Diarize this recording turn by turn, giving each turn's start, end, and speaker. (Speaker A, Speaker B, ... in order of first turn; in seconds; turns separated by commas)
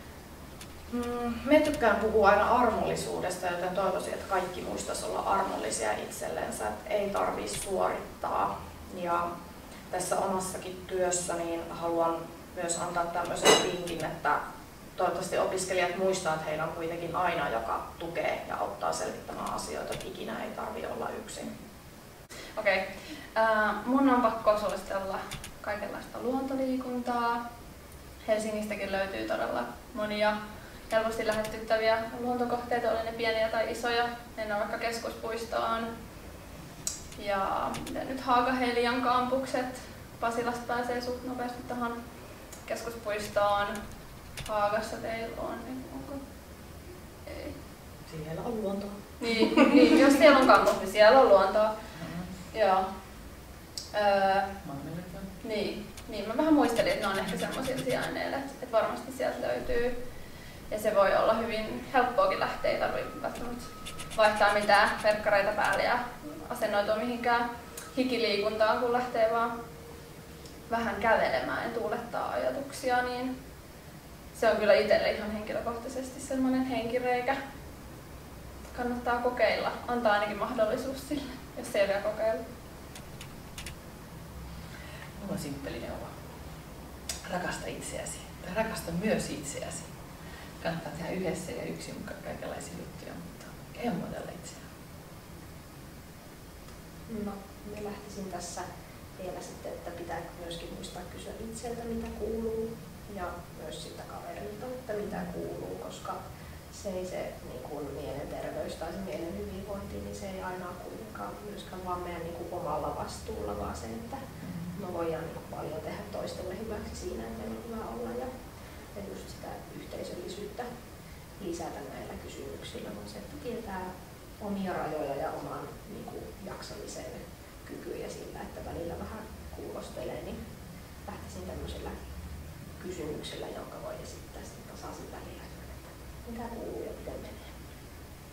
Speaker A: 0.9-9.3, Speaker A: 9.9-14.4, Speaker A: 15.0-21.5, Speaker B: 22.6-27.4, Speaker B: 28.2-30.4, Speaker B: 30.9-35.9, Speaker B: 37.2-42.0, Speaker B: 42.6-43.8, Speaker B: 44.5-46.2, Speaker B: 47.3-47.5, Speaker C: 48.1-49.0, Speaker B: 49.2-51.7, Speaker C: 52.0-52.3, Speaker B: 52.5-52.9, Speaker B: 53.9-54.5, Speaker C: 54.6-55.3, Speaker B: 55.4-59.9, Speaker B: 60.7-69.5, Speaker B: 70.7-73.3, Speaker B: 74.3-77.4, Speaker B: 78.7-82.4, Speaker C: 85.2-86.1, Speaker C: 87.2-89.9, Speaker C: 90.6-94.6, Speaker D: 97.1-98.7, Speaker D: 99.2-106.2, Speaker D: 106.7-114.2, Speaker C: 114.4-114.7, Speaker D: 114.8-118.3, Speaker D: 118.9-120.7, Speaker D: 121.4-130.4, Speaker D: 131.1-132.0, Speaker D: 132.8-137.5